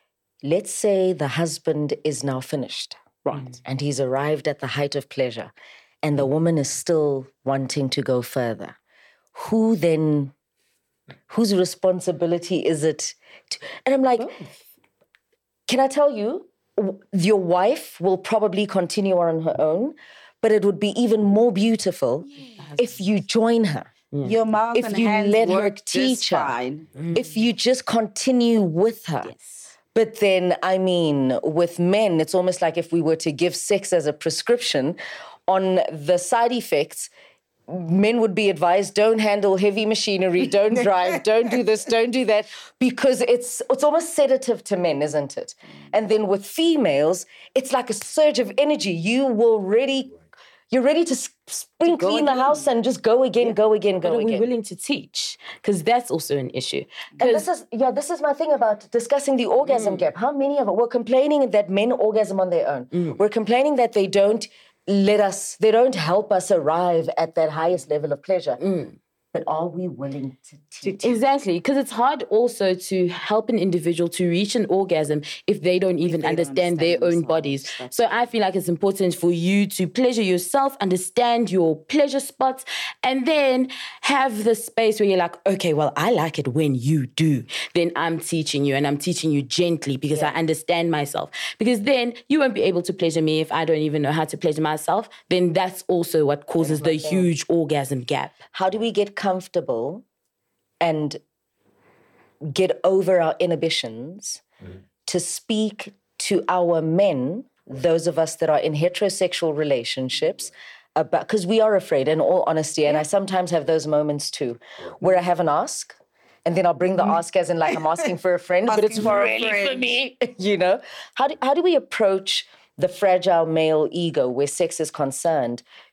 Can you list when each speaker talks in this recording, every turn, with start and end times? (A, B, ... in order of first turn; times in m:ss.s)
0:00.4-0:03.0 A
0:03.2-0:03.6 B
0:03.6-0:05.5 A
0:06.0-0:08.8 A
0:09.3-0:10.3 A
0:11.3-0:14.4 A
0:14.2-0:14.5 B
0:15.7-0:23.9 A
0:24.1-0:24.4 C
0:24.2-0:26.9 B
0:24.7-0:26.5 A
0:27.0-0:27.3 C
0:27.1-0:29.3 A
0:30.0-0:37.1 A
0:37.7-0:50.1 A
0:50.7-0:54.5 A
0:52.0-0:52.5 C
0:54.0-0:57.5 C
0:57.2-1:08.6 A
0:59.7-1:00.1 C
1:08.6-1:09.0 C
1:09.3-1:11.2 A
1:10.8-1:38.4 C
1:16.0-1:17.9 B
1:36.6-1:37.3 A
1:38.5-1:40.0 A
1:40.8-1:41.2 A
1:42.5-1:44.4 A
1:45.1-2:05.6 A
1:58.7-1:59.9 B